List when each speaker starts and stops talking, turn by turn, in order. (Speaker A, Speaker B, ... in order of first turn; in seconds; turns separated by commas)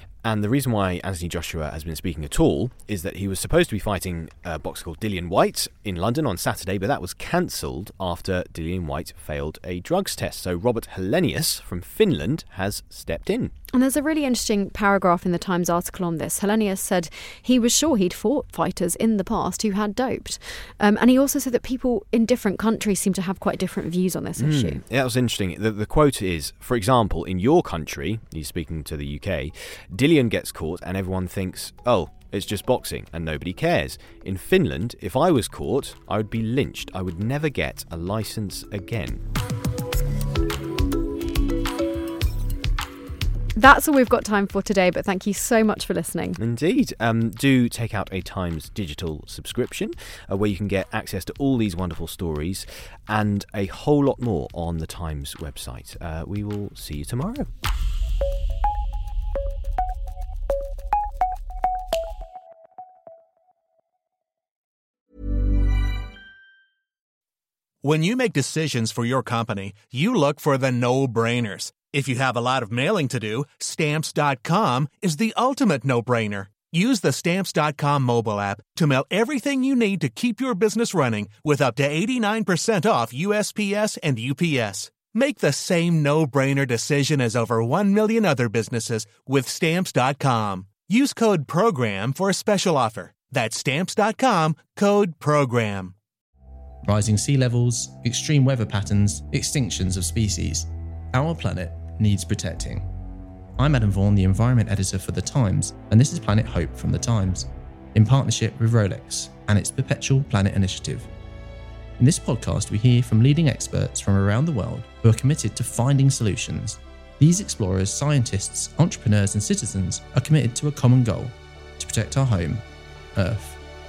Speaker A: 0.2-13.5, Speaker B: 13.7-24.8, Speaker A: 24.4-39.2, Speaker B: 43.5-46.4, Speaker A: 46.4-57.5, Speaker C: 67.8-95.9, Speaker D: 96.8-102.8, Speaker D: 103.6-111.1, Speaker D: 112.0-122.6, Speaker D: 123.1-123.6